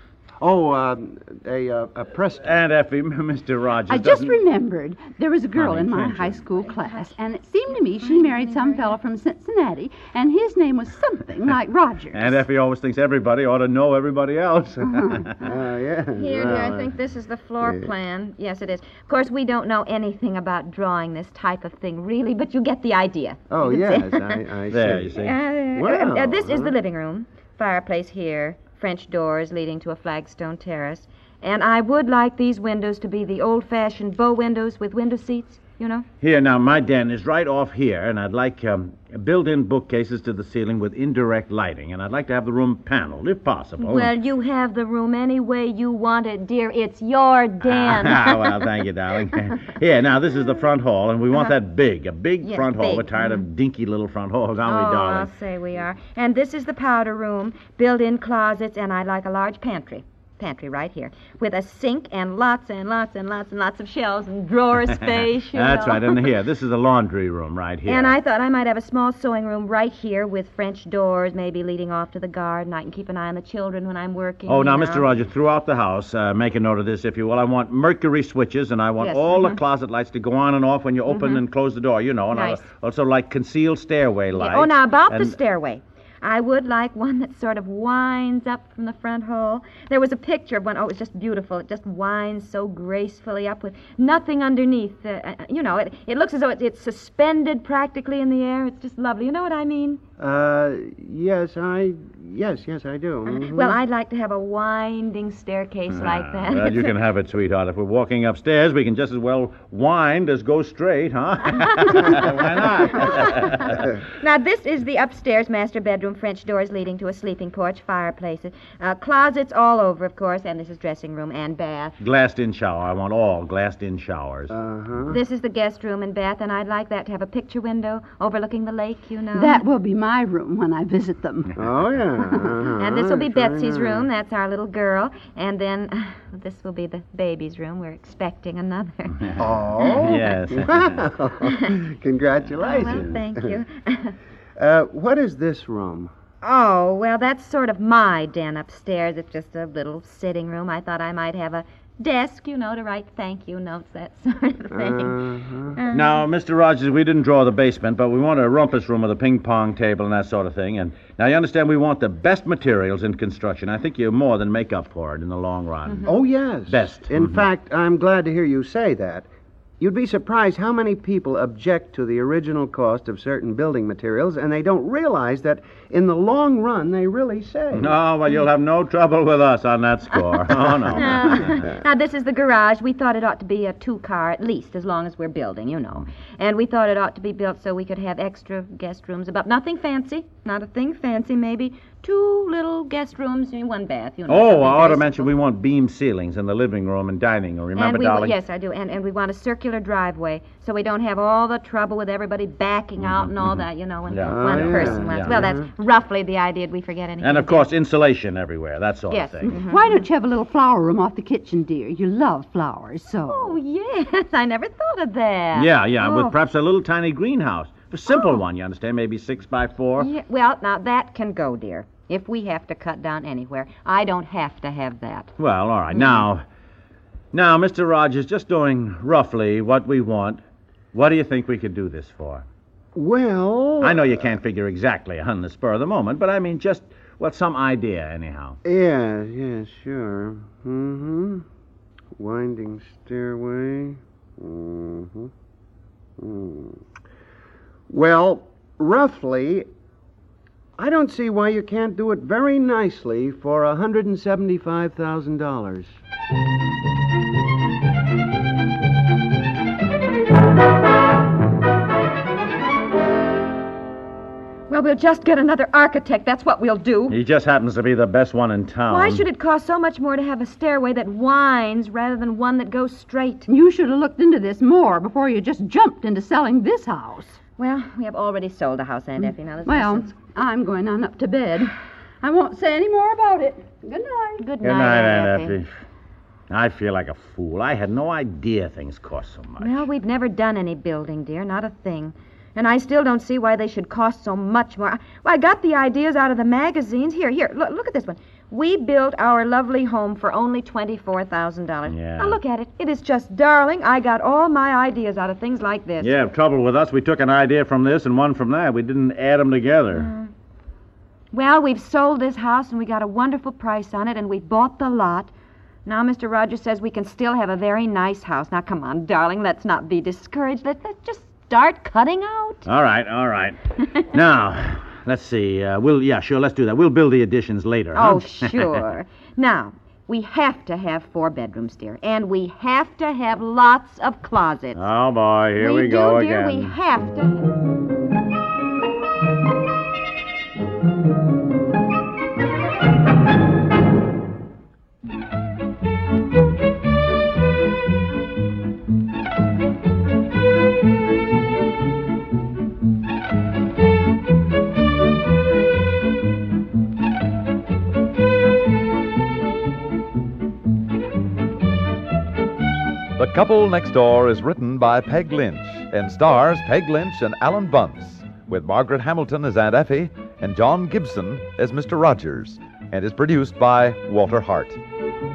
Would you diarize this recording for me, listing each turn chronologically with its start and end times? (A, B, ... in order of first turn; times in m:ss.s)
0:00.4-0:02.5 A
0:02.4-0:04.4 B
0:03.9-0:12.4 C
0:05.5-0:06.4 B
0:06.8-0:07.1 D
0:08.0-0:08.9 D
0:12.1-0:15.5 B
0:14.8-0:15.3 C
0:15.4-0:16.9 A
0:16.2-0:24.4 D
0:17.6-0:17.9 A
0:23.5-0:25.2 A
0:24.7-0:25.4 B
0:25.2-0:36.0 D
0:25.7-0:26.7 A
0:36.2-0:44.1 B
0:43.8-0:48.6 D
0:47.6-0:55.3 B
0:52.4-0:53.4 D
0:54.6-1:06.3 D
1:04.8-1:08.1 B
1:07.8-1:15.2 D
1:14.4-1:25.4 B
1:19.0-1:19.6 D
1:21.1-1:21.4 D
1:22.3-1:22.6 D
1:24.3-1:40.0 D
1:40.2-1:43.8 A
1:43.2-1:47.0 D
1:45.9-1:53.8 B
1:51.6-1:52.2 D
1:52.9-2:01.9 D
2:02.0-2:04.5 B
2:04.5-2:05.2 A
2:05.1-2:09.6 D
2:09.3-2:11.5 C
2:11.6-2:14.1 A
2:12.2-2:12.5 C
2:12.7-2:20.2 D
2:19.4-2:23.6 A
2:19.9-2:21.0 B
2:21.5-2:21.8 D
2:22.6-2:24.1 D
2:24.6-2:26.1 A
2:26.4-2:35.2 D
2:34.7-2:35.8 A
2:35.7-2:36.2 D
2:35.9-2:46.1 B
2:45.9-2:46.1 D
2:46.0-2:49.2 A
2:46.7-2:47.4 B
2:49.8-2:58.0 A
2:57.7-3:01.6 B
3:00.9-3:15.3 D
3:14.3-3:18.4 B
3:17.7-3:27.7 D
3:23.0-3:25.4 B
3:24.2-3:25.7 A
3:27.2-3:29.5 B
3:29.1-3:30.0 D
3:29.4-3:33.5 C
3:33.2-3:36.4 D
3:35.5-3:40.1 B
3:38.1-3:38.4 D
3:40.0-3:45.3 D
3:45.4-3:46.4 B
3:45.9-3:46.2 D
3:47.3-3:50.4 B
3:50.9-3:52.4 B
3:52.9-3:54.2 A
3:53.8-3:58.6 B
3:58.6-4:01.4 A
4:02.2-4:05.3 A
4:06.2-4:06.8 A
4:07.9-4:09.6 A
4:10.8-4:15.9 A
4:24.7-4:27.2 D
4:27.1-4:29.2 B
4:28.9-4:33.5 D
4:33.5-4:37.4 C
4:37.6-4:40.1 D
4:39.2-4:41.7 C
4:42.2-4:44.4 C
4:44.4-4:45.6 D
4:44.6-4:45.7 B
4:46.5-4:49.9 B
4:49.6-5:06.1 D
5:01.9-5:02.4 B
5:06.0-5:10.1 B
5:09.9-5:10.3 D
5:11.3-5:15.3 D
5:15.8-5:22.6 D
5:22.6-5:28.8 B
5:27.9-5:34.8 D
5:34.7-5:36.7 B
5:35.6-5:37.6 D
6:03.2-6:14.8 E